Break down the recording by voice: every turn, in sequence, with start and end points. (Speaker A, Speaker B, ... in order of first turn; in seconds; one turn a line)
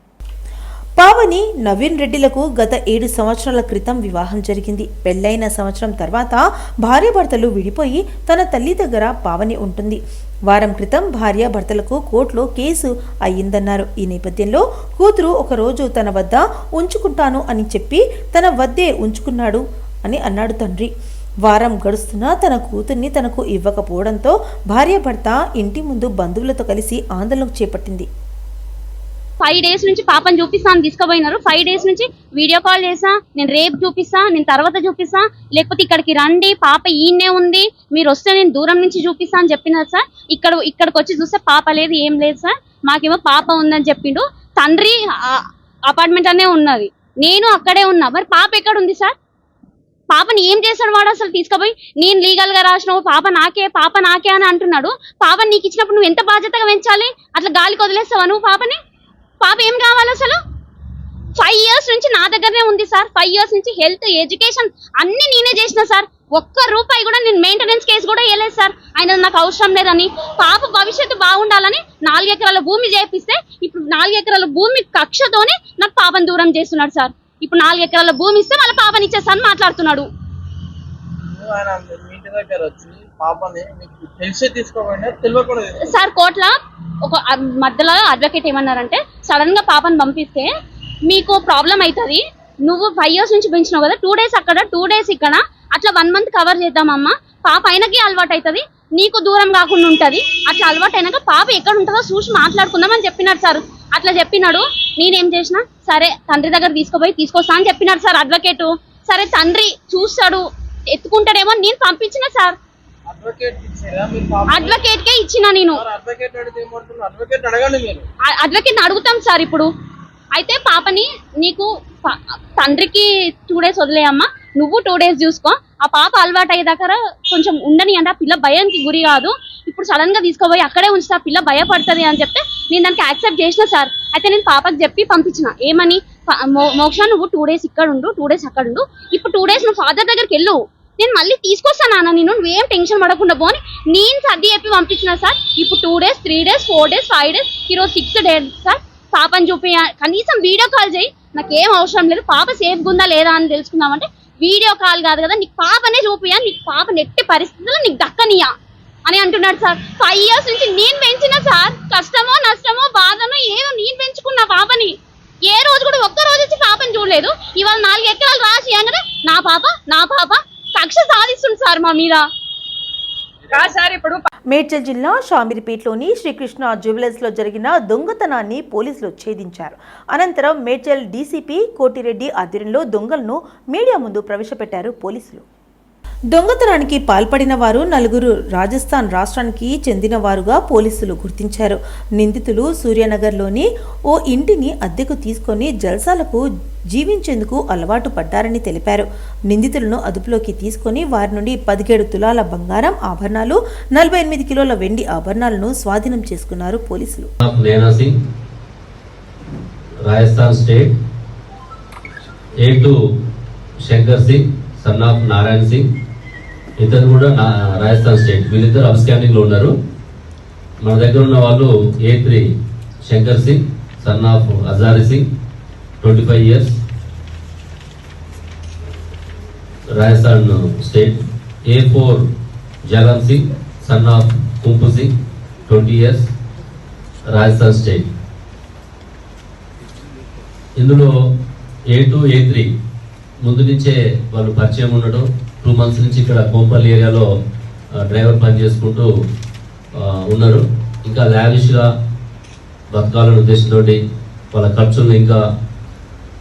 Speaker A: 1.0-20.9
Speaker A: 21.4-28.1
Speaker B: 29.4-49.1
Speaker B: 50.1-58.8
Speaker B: 59.4-60.4
Speaker B: 61.4-80.1
Speaker C: 81.3-85.9
Speaker B: 85.9-90.5
Speaker B: 91.0-112.6
Speaker C: 113.1-114.8
Speaker B: 114.5-115.8
Speaker C: 115.7-118.0
Speaker B: 118.3-119.7
Speaker B: 120.3-158.5
Speaker B: 159.1-172.2
Speaker C: 173.5-173.8
Speaker B: 173.5-174.2
Speaker A: 174.5-185.4
Speaker A: 186.3-207.3
Speaker D: 207.4-208.2
Speaker D: 210.0-210.9
Speaker D: 212.6-213.0
Speaker D: 213.8-215.9
Speaker D: 216.8-219.7
Speaker D: 220.8-222.4
Speaker D: 223.1-225.2
Speaker D: 226.0-226.7
Speaker D: 229.9-232.3
Speaker D: 232.9-235.1
Speaker D: 235.7-236.3
Speaker D: 237.3-238.1
Speaker D: 240.8-241.1
Speaker D: 241.9-242.7
Speaker D: 243.4-247.2
Speaker D: 247.9-249.1
Speaker D: 249.9-251.9
Speaker D: 252.9-254.0
Speaker D: 254.5-255.5